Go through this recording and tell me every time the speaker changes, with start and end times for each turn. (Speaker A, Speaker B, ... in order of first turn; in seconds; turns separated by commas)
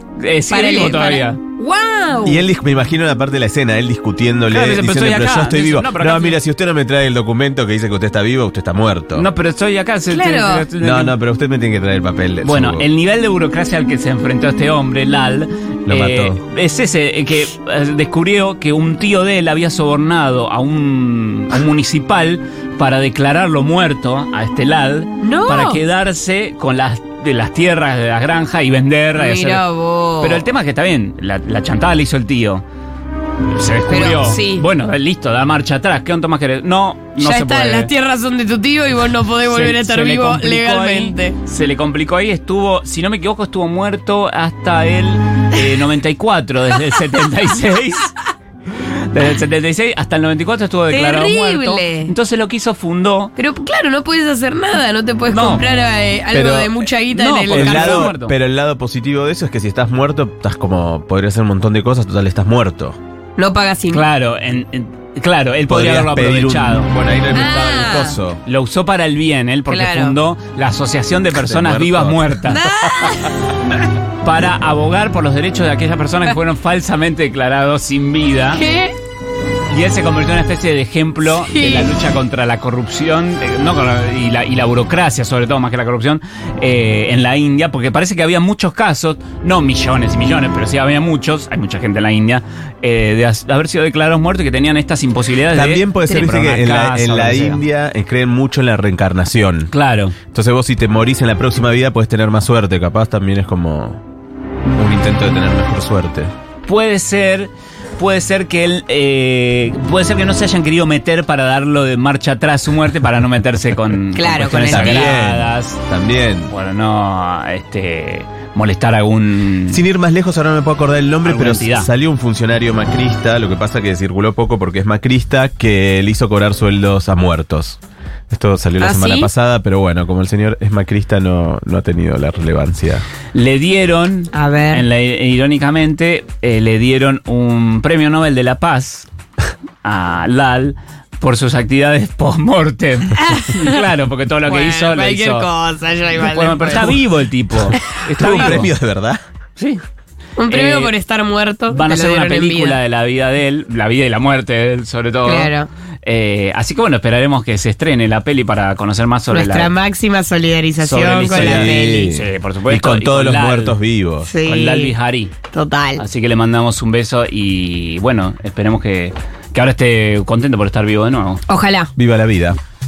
Speaker A: 0.2-1.4, Speaker B: 0.5-2.5, Speaker C: 2.2-9.3, Speaker A: 4.5-6.4, Speaker A: 9.1-11.2, Speaker B: 10.1-10.7, Speaker C: 10.8-12.8, Speaker A: 12.4-29.6, Speaker C: 15.9-16.4, Speaker B: 25.2-25.8, Speaker B: 29.1-30.4, Speaker A: 30.2-32.6, Speaker A: 33.5-37.9, Speaker B: 33.9-34.6, Speaker B: 37.2-41.4, Speaker A: 39.5-48.1, Speaker A: 48.7-53.3, Speaker B: 50.9-52.1, Speaker B: 53.4-58.1, Speaker A: 55.3-55.6, Speaker C: 56.3-56.8, Speaker A: 57.1-58.4, Speaker C: 57.5-63.0, Speaker B: 63.4-64.0, Speaker A: 63.9-66.9, Speaker C: 65.7-68.4, Speaker B: 67.3-68.2, Speaker A: 68.4-72.7, Speaker B: 69.7-70.2, Speaker C: 71.3-72.3, Speaker B: 72.5-73.7, Speaker A: 74.2-78.6, Speaker B: 78.5-78.9, Speaker A: 79.7-97.6, Speaker B: 81.2-81.9, Speaker C: 95.5-99.7, Speaker A: 99.7-100.2, Speaker C: 100.3-104.0, Speaker C: 104.7-106.3, Speaker A: 106.7-115.8, Speaker B: 114.1-115.1, Speaker C: 114.6-116.5, Speaker A: 116.5-119.8, Speaker C: 119.7-127.8, Speaker A: 121.2-121.9, Speaker C: 128.3-133.0, Speaker B: 128.8-129.3, Speaker A: 133.3-139.1, Speaker B: 134.3-134.8, Speaker A: 139.8-145.5, Speaker B: 143.2-143.8, Speaker B: 144.4-147.0, Speaker A: 146.2-148.7, Speaker C: 147.7-149.2, Speaker B: 148.2-148.6, Speaker A: 149.6-149.8, Speaker B: 150.4-152.8, Speaker A: 150.5-150.9, Speaker A: 151.7-155.5, Speaker B: 155.2-155.7, Speaker A: 156.0-159.7, Speaker B: 159.3-162.1, Speaker A: 160.8-163.8, Speaker C: 161.3-164.3, Speaker B: 164.2-164.9, Speaker A: 164.4-165.3, Speaker B: 165.5-166.0, Speaker A: 166.0-171.4, Speaker B: 171.5-171.9, Speaker C: 172.0-172.6